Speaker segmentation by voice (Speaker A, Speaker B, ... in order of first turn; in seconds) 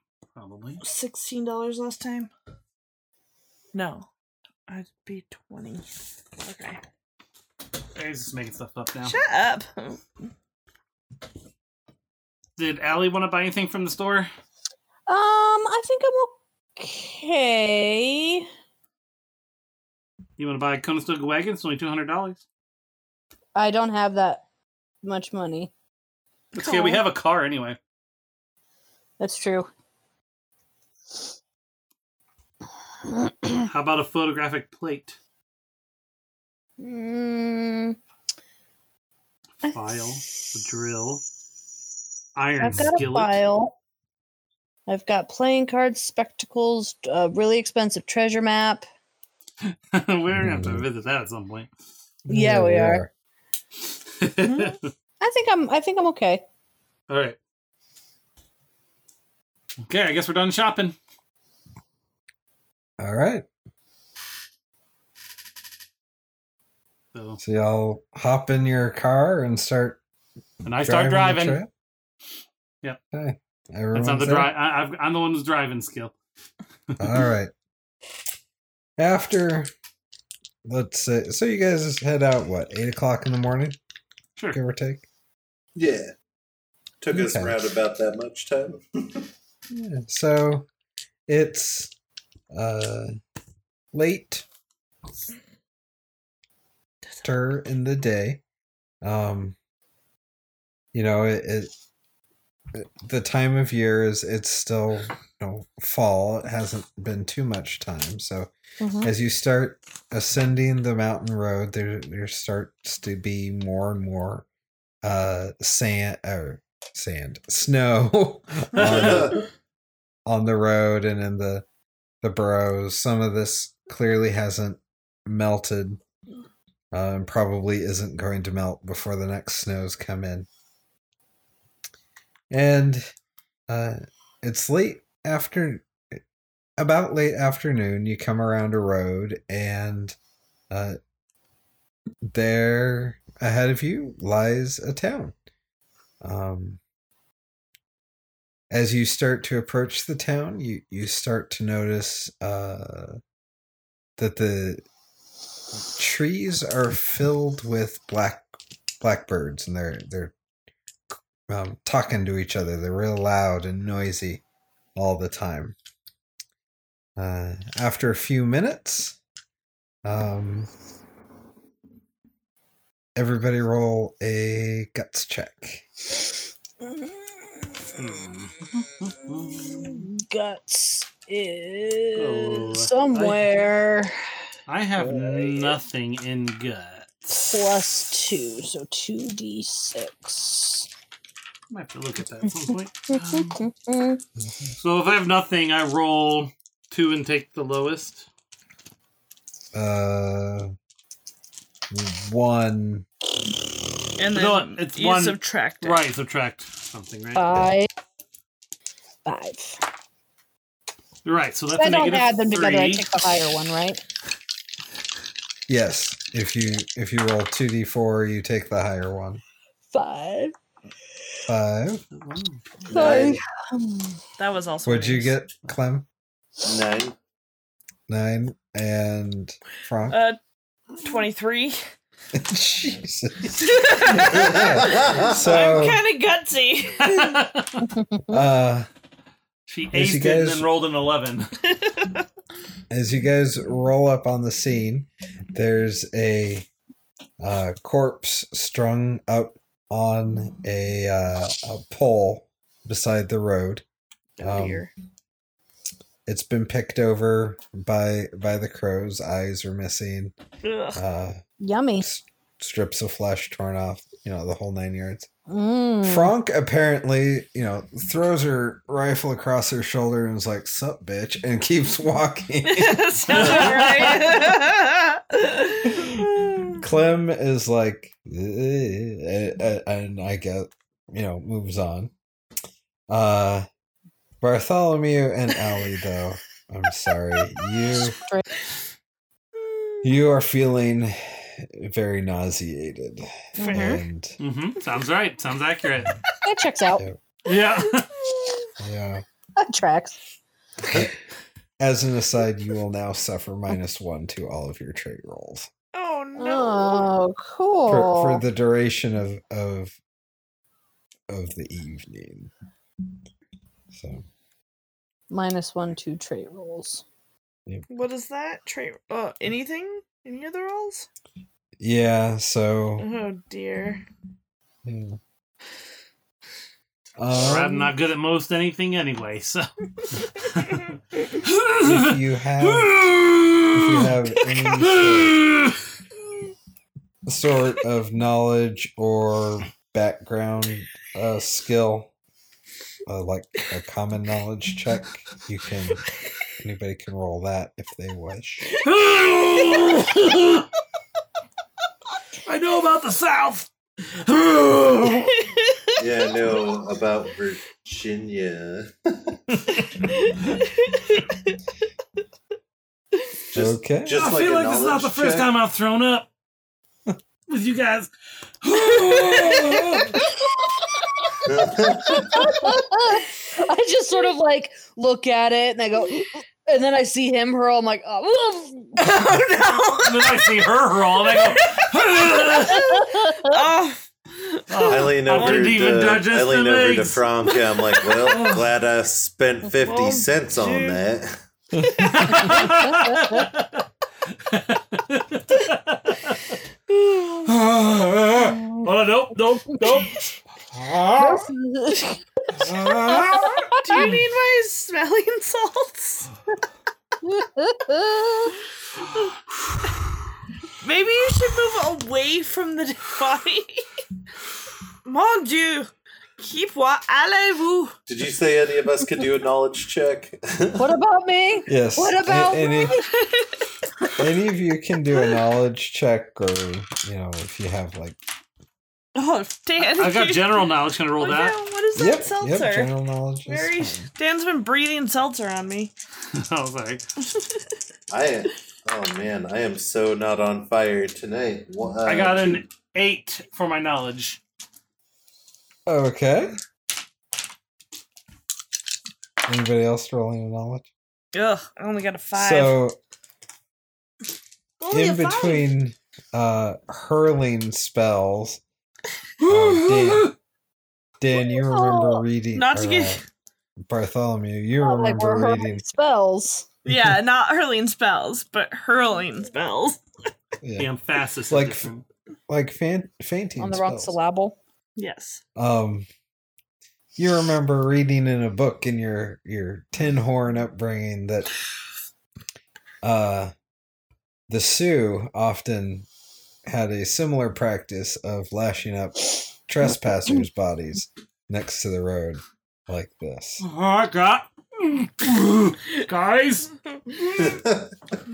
Speaker A: 0.3-0.8, 8.0-9.2, 12.6-14.3, 20.4-22.4, 26.5-27.8, 33.7-35.2, 39.6-41.2, 42.4-43.4, 49.7-51.7, 54.2-54.8, 57.1-57.4, 59.9-61.0, 67.1-67.4, 70.6-71.6, 73.9-76.1, 178.0-180.0, 182.2-183.5, 184.7-187.5, 191.7-193.6, 194.8-198.3, 204.3-207.6, 211.2-213.1, 222.2-222.7, 237.0-237.9, 239.7-241.6, 273.4-274.2, 294.4-296.1, 297.5-298.1, 327.4-329.7, 330.3-330.9, 331.4-332.0, 332.7-333.8, 335.3-335.7, 348.8-350.6, 352.5-355.3, 364.2-366.3, 367.5-368.1, 368.6-370.2, 380.1-382.9, 384.7-387.6, 388.2-388.6, 392.1-393.8, 394.5-396.6, 397.5-401.5, 402.6-404.3, 430.0-431.6, 436.3-437.0, 442.1-444.4, 459.9-460.3, 470.8-472.1, 493.6-497.6
Speaker B: 0.8-2.3, 3.7-4.1, 4.7-5.9, 6.4-6.8, 9.1-10.0, 54.5-54.7, 204.2-206.0, 224.4-225.4, 230.1-230.4, 231.0-231.8, 233.6-237.3, 241.8-242.1, 254.4-254.9, 260.6-261.0, 272.7-276.8, 293.6-294.0, 305.9-307.1, 317.9-321.1, 323.0-324.1, 355.3-355.9, 360.1-361.6, 379.0-380.5, 381.5-381.8, 382.5-382.7, 383.4-385.7, 389.8-391.0, 391.8-392.6, 396.9-397.5, 403.3-406.3, 410.8-413.8, 415.1-417.9, 423.2-423.7, 429.1-430.7, 431.2-432.9, 433.5-435.9, 451.3-452.8, 454.8-455.7, 462.5-463.2, 466.9-470.0, 475.0-475.4
Speaker C: 15.1-18.5, 23.6-24.4, 25.0-25.7, 29.2-29.7, 33.1-33.6, 36.8-38.0, 42.6-43.8, 44.9-48.9, 52.3-53.0, 55.2-56.5, 108.8-109.1, 179.3-184.2, 187.4-190.9, 193.1-194.2, 207.3-207.9, 209.2-209.8, 211.8-214.0, 219.9-220.5, 222.9-224.2, 238.0-238.4, 261.6-262.1, 265.5-266.3, 293.6-294.0, 296.4-297.0, 299.6-300.2, 306.4-308.4, 315.3-317.0, 372.1-379.2, 382.7-383.6, 393.1-393.4, 401.2-402.2, 403.1-403.6, 407.2-408.6, 420.8-423.1, 461.4-462.2, 464.8-466.7, 473.6-474.6
Speaker D: 50.4-50.8, 52.3-53.1, 63.0-63.5, 67.4-70.0, 70.8-71.7, 73.1-74.5, 77.0-77.5, 79.0-79.7, 80.7-83.8, 84.5-85.0, 87.1-87.5, 89.7-90.7, 91.3-91.9, 92.5-93.1, 93.9-94.5, 97.2-98.4, 99.0-99.6, 100.9-101.7, 102.8-108.5, 109.0-114.5, 115.0-119.4, 120.3-121.7, 122.2-126.0, 126.9-130.5, 132.5-133.1, 133.7-136.2, 136.8-140.2, 140.7-141.0, 142.3-145.3, 146.2-146.8, 148.7-153.2, 154.2-154.8, 155.9-158.5, 159.0-160.3, 161.5-164.4, 165.0-165.8, 167.2-169.2, 170.1-170.7, 173.2-175.8, 194.4-194.7, 199.7-200.7, 201.9-203.1, 215.7-219.4, 221.5-222.0, 224.8-226.1, 228.1-230.2, 232.3-236.0, 238.3-238.9, 239.9-240.7, 242.9-246.7, 247.4-253.8, 254.4-254.9, 256.3-260.4, 260.9-261.4, 262.0-265.3, 266.1-273.6, 276.8-282.1, 283.1-283.7, 284.4-288.2, 290.0-294.4, 298.8-299.2, 301.8-305.7, 307.9-310.0, 311.3-312.5, 313.9-314.2, 321.8-323.1, 324.9-325.2, 327.2-327.9, 331.8-332.9, 333.7-335.4, 337.3-342.1, 343.1-348.7, 363.6-364.2, 421.7-423.0, 424.2-428.2, 431.9-434.1, 445.9-446.5, 449.4-450.9, 452.3-453.0, 454.9-458.6, 459.4-460.3, 461.2-463.2, 463.8-465.9, 470.6-470.9, 471.5-471.9, 472.5-474.2, 475.6-476.1, 477.2-481.5, 483.0-483.5, 484.5-486.1, 486.7-493.6
Speaker E: 85.8-86.1, 87.0-89.3, 118.8-119.4, 222.9-223.4, 226.6-227.2, 234.3-235.2, 356.0-359.4, 363.5-365.5, 371.5-372.2, 384.9-391.4, 418.1-420.9, 438.1-442.6, 497.4-497.8